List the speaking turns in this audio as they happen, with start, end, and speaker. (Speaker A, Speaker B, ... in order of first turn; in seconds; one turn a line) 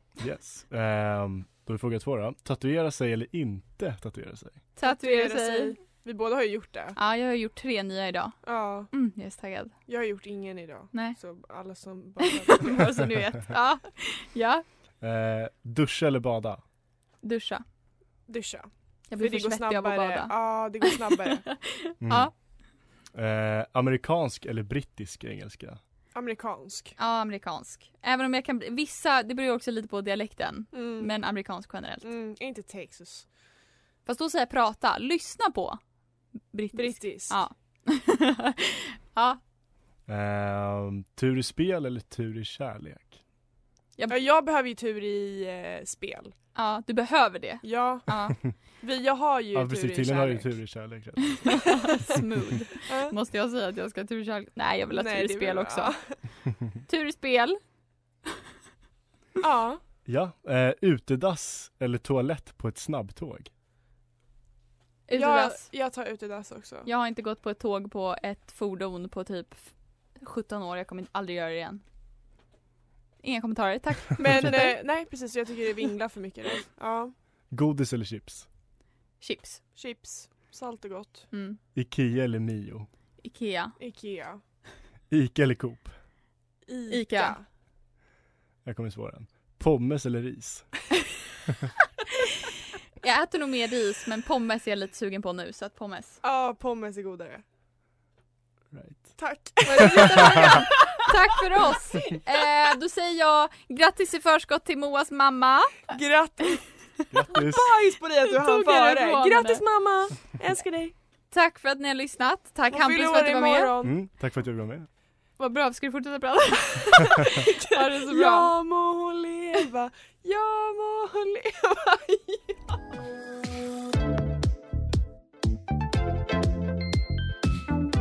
Speaker A: 0.2-4.6
Speaker B: 4.8-5.8
Speaker C: 4.8-7.0
Speaker B: 7.0-9.7
Speaker C: 8.4-8.9
Speaker C: 9.9-12.9
Speaker B: 12.2-14.6
Speaker A: 15.0-16.6
Speaker B: 17.2-17.6
Speaker C: 18.3-21.5
Speaker B: 19.1-22.3
Speaker A: 22.0-22.3
Speaker A: 23.1-25.8
Speaker C: 26.1-26.9
Speaker B: 27.0-32.1
Speaker C: 30.7-31.1
Speaker C: 32.0-33.2
Speaker B: 34.0-35.8
Speaker B: 36.5-39.4
Speaker C: 36.7-37.4
Speaker A: 40.1-43.2
Speaker C: 44.1-46.3
Speaker B: 46.5-48.4
Speaker C: 47.6-48.1
Speaker C: 48.8-50.5
Speaker A: 49.5-51.8
Speaker B: 51.4-55.9
Speaker C: 52.9-53.1
Speaker C: 54.9-56.2
Speaker B: 56.9-57.6
Speaker C: 59.4-59.8
Speaker A: 60.0-63.5
Speaker B: 65.1-65.7
Speaker C: 65.1-66.9
Speaker B: 66.8-71.8
Speaker B: 73.2-74.7
Speaker C: 74.2-77.1
Speaker A: 77.5-78.5
Speaker B: 79.2-79.6
Speaker C: 79.8-81.3
Speaker B: 81.3-81.6
Speaker A: 81.7-82.9
Speaker B: 83.2-83.7
Speaker C: 83.8-84.4
Speaker A: 85.1-85.9
Speaker C: 86.7-87.4
Speaker B: 86.9-87.4
Speaker A: 88.6-90.9
Speaker B: 93.0-96.2
Speaker C: 96.2-97.4
Speaker A: 98.7-99.2
Speaker C: 99.2-101.1
Speaker B: 99.6-106.0
Speaker A: 99.9-100.3
Speaker C: 101.7-102.1
Speaker C: 105.9-106.7
Speaker A: 107.1-107.7
Speaker C: 107.3-110.9
Speaker B: 108.2-109.6
Speaker B: 111.3-113.8
Speaker C: 112.7-114.0
Speaker A: 113.8-114.9
Speaker B: 115.4-118.5
Speaker C: 117.3-122.6